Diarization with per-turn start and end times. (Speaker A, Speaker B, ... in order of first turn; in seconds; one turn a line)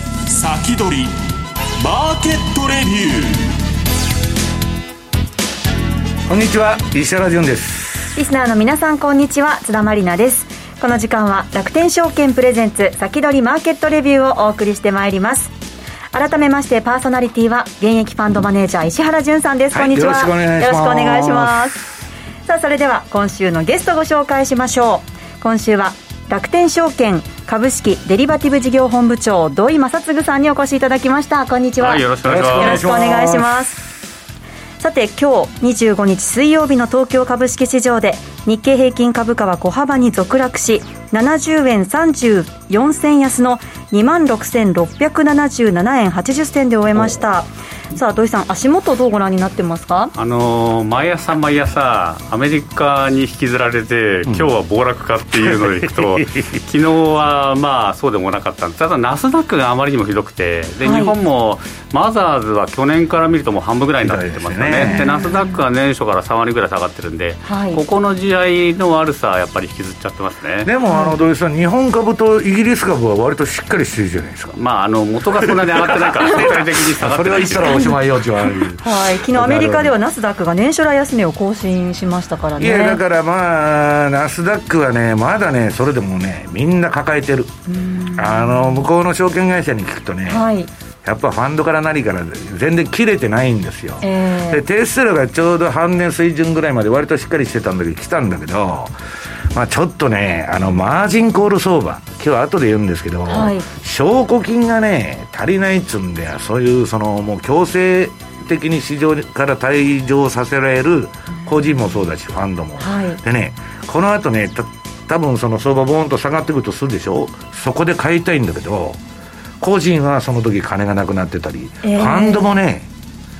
Speaker A: 0.2-1.2
Speaker A: 1.8-3.5
Speaker B: 6.3-8.2
Speaker C: 8.2-15.5
Speaker C: 16.1-21.9
Speaker B: 19.7-21.8
Speaker C: 22.4-33.8
Speaker D: 31.8-33.0
Speaker B: 32.2-33.8
Speaker C: 34.8-50.1
Speaker D: 50.1-70.7
Speaker B: 55.4-56.5
Speaker C: 60.8-61.1
Speaker B: 64.0-65.0
Speaker C: 64.8-65.6
Speaker C: 67.5-67.8
Speaker B: 70.6-74.5
Speaker C: 70.9-71.2
Speaker D: 74.5-77.8
Speaker B: 75.5-79.9
Speaker C: 77.6-83.0
Speaker B: 82.6-87.5
Speaker C: 87.7-88.5
Speaker B: 88.1-90.4
Speaker C: 90.3-90.7
Speaker B: 91.0-98.9
Speaker C: 94.0-94.6
Speaker B: 99.5-119.0
Speaker C: 103.3-103.7
Speaker C: 112.8-113.2
Speaker B: 119.6-122.9
Speaker C: 121.8-122.4